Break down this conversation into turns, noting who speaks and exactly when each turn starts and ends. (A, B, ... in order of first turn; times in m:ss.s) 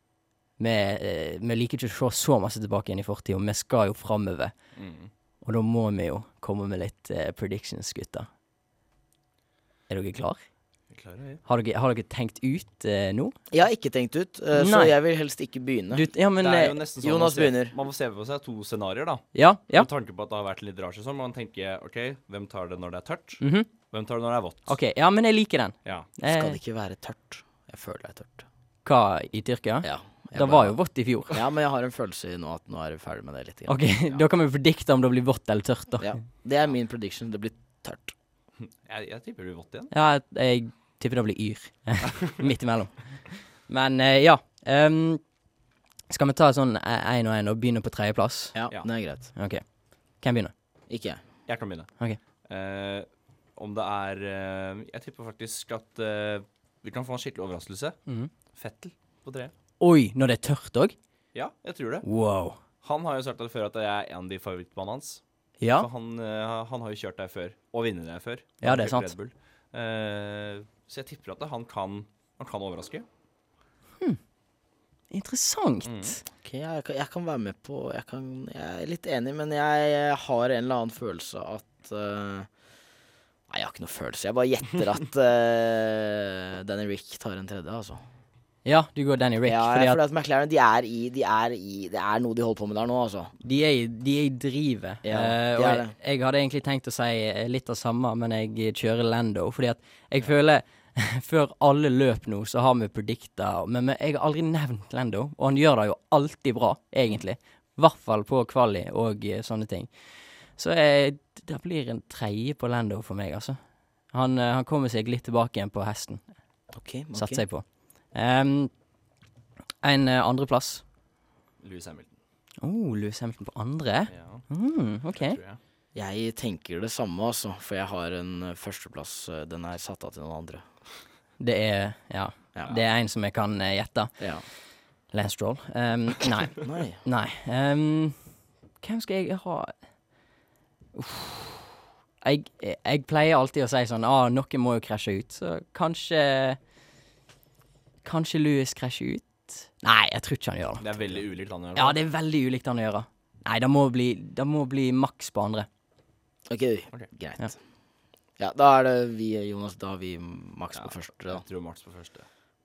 0:00.6-0:04.7 A
0:04.8-0:05.1 B
0:05.4-0:08.3 A
0:09.9-0:10.4 A
0:10.9-0:11.4 B
0:11.4-0:13.4 A
0:13.5-0:16.1 C
0:14.5-0:14.9 A
0:15.9-0:16.8 A
0:16.4-0:24.8 B
0:17.0-0:17.7 C
0:19.3-0:19.9 A
0:23.4-0:23.7 A
0:24.7-0:26.6 A
0:26.2-0:28.5 C
0:28.8-0:31.4 A
0:29.8-0:34.2 C
0:33.7-0:36.2 A
0:36.0-0:38.1 C
0:38.6-0:39.9 B
0:39.9-0:45.2 A
0:46.1-0:48.6 A
0:48.5-0:49.3 C
0:49.3-0:50.5 A
0:50.9-0:51.2 C
0:51.5-0:58.0 B
0:58.5-0:59.5 B
0:59.8-1:01.0 A
1:01.3-1:02.1 B
1:02.0-1:02.6 A
1:02.8-1:13.0 B
1:05.6-1:05.9 A
1:08.6-1:09.1 A
1:15.1-1:16.2 A
1:15.8-1:16.2 B
1:16.4-1:22.5 C
1:23.5-1:28.0 C
1:28.6-1:30.0 A
1:29.4-1:33.3 C
1:33.4-1:56.3 A
1:35.0-1:35.9 C
1:56.7-1:57.4 C
1:57.1-1:58.8 A
1:59.8-2:00.8 A
2:01.6-2:02.2 B
2:02.6-2:05.4 A
2:04.1-2:04.5 B
2:05.1-2:05.6 B
2:05.9-2:10.6 C
2:11.4-2:14.3 A
2:12.5-2:12.8 C
2:14.2-2:14.4 C
2:15.1-2:19.8 A
2:16.6-2:17.0 C
2:20.9-2:21.6 A
2:22.2-2:26.6 A
2:28.0-2:31.2 A
2:30.8-2:32.0 B
2:31.7-2:35.7 A
2:36.5-2:37.6 C
2:38.4-2:41.4 C
2:40.7-2:42.2 B